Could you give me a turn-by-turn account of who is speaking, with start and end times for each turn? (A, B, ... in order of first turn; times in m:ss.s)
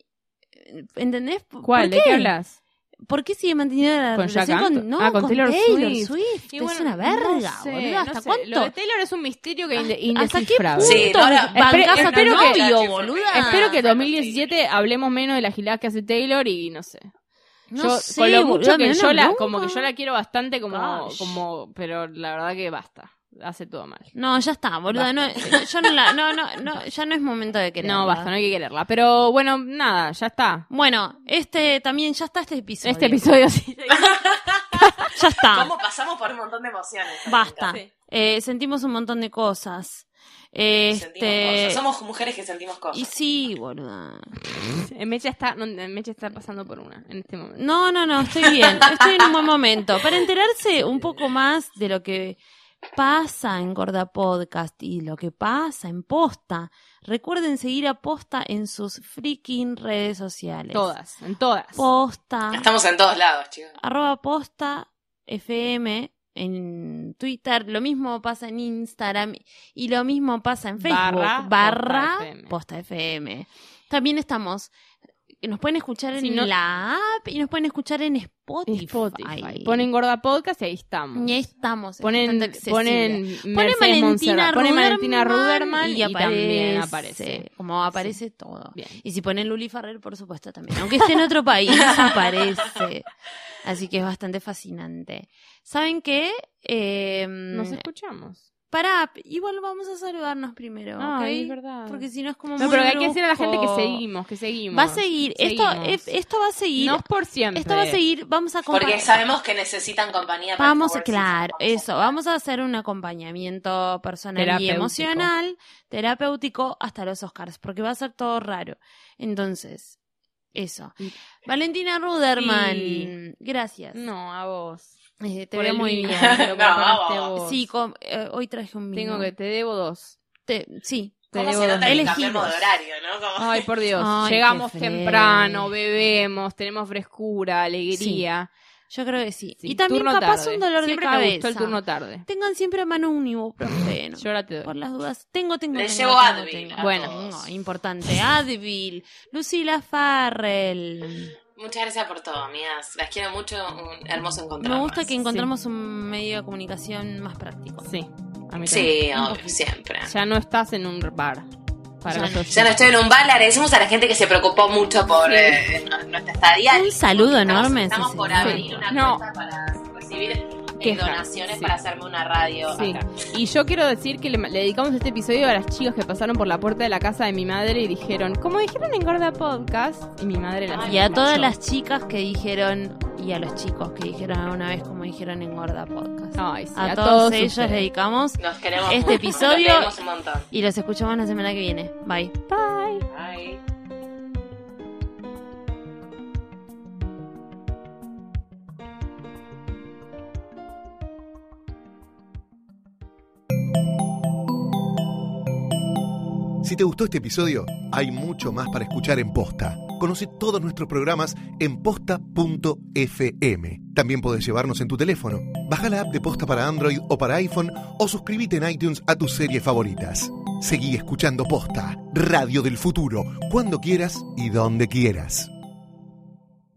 0:00.6-0:02.3 A
0:01.6-0:02.6 B
0:03.0-0:08.7 A
0:04.1-0:12.6 B
0:09.7-0:13.7 A
0:10.8-0:14.6 C
0:13.4-0:17.1 B
0:17.7-0:19.9 A
0:17.8-0:24.1 B
0:20.7-0:21.4 A
0:24.1-0:28.3 A
0:24.9-0:25.2 B
0:27.8-0:30.7 B
0:30.7-0:33.3 A
0:32.8-0:35.2 B
0:33.9-0:34.8 C
0:35.1-0:35.7 A
0:35.5-0:37.7 C
0:37.2-0:41.8 A
0:40.9-0:43.0 C
0:42.9-0:44.3 A
0:44.7-0:47.6 B
0:47.6-0:52.4 A
0:48.8-0:49.2 C
0:53.0-1:00.9 A
1:00.7-1:01.8 B
1:01.8-1:02.7 A
1:02.5-1:03.8 C
1:03.8-1:14.7 A
1:10.8-1:12.6 B
1:15.4-1:19.9 A
1:16.2-1:16.5 B
1:18.7-1:21.3 B
1:21.2-1:33.1 A
1:22.0-1:28.2 B
1:28.7-1:29.0 B
1:31.8-1:32.2 C
1:33.6-1:37.8 A
1:37.5-1:38.4 B
1:38.7-1:44.0 A
1:41.0-1:42.0 B
1:42.6-1:46.1 B
1:44.7-1:49.2 A
1:46.8-1:48.0 B
1:48.7-1:52.1 C
1:50.6-1:59.9 A
1:54.4-1:55.3 B
2:00.5-2:04.0 A
2:02.4-2:03.1 B
2:03.9-2:04.9 B
2:05.2-2:06.5 A
2:05.5-2:07.6 B
2:06.1-2:07.3 C
2:07.4-2:09.3 A
2:08.9-2:10.2 B
2:10.4-2:12.7 A
2:11.3-2:12.2 B
2:11.3-2:13.7 C
2:13.4-2:18.5 B
2:14.0-2:15.7 A
2:17.9-2:18.2 A
2:18.9-2:31.4 A
2:19.6-2:22.2 B
2:24.2-2:24.7 B
2:25.7-2:27.4 C
2:26.8-2:27.1 B
2:31.6-2:35.1 C
2:34.6-2:37.9 A
2:37.8-2:38.9 B
2:38.7-2:40.1 C
2:38.7-2:39.6 A
2:40.0-2:41.5 B
2:42.0-2:42.8 B
2:42.0-2:42.5 A
2:42.5-2:53.1 C
2:45.2-2:45.6 B
2:46.7-2:48.9 A
2:48.4-2:49.2 B
2:50.8-2:51.7 B
2:52.7-3:01.5 B
3:00.7-3:01.0 C
3:00.8-3:09.9 A
3:06.4-3:07.8 B
3:08.4-3:10.5 C
3:10.5-3:12.3 A
3:12.5-3:13.0 B
3:13.1-3:13.6 C
3:26.6-3:45.5 D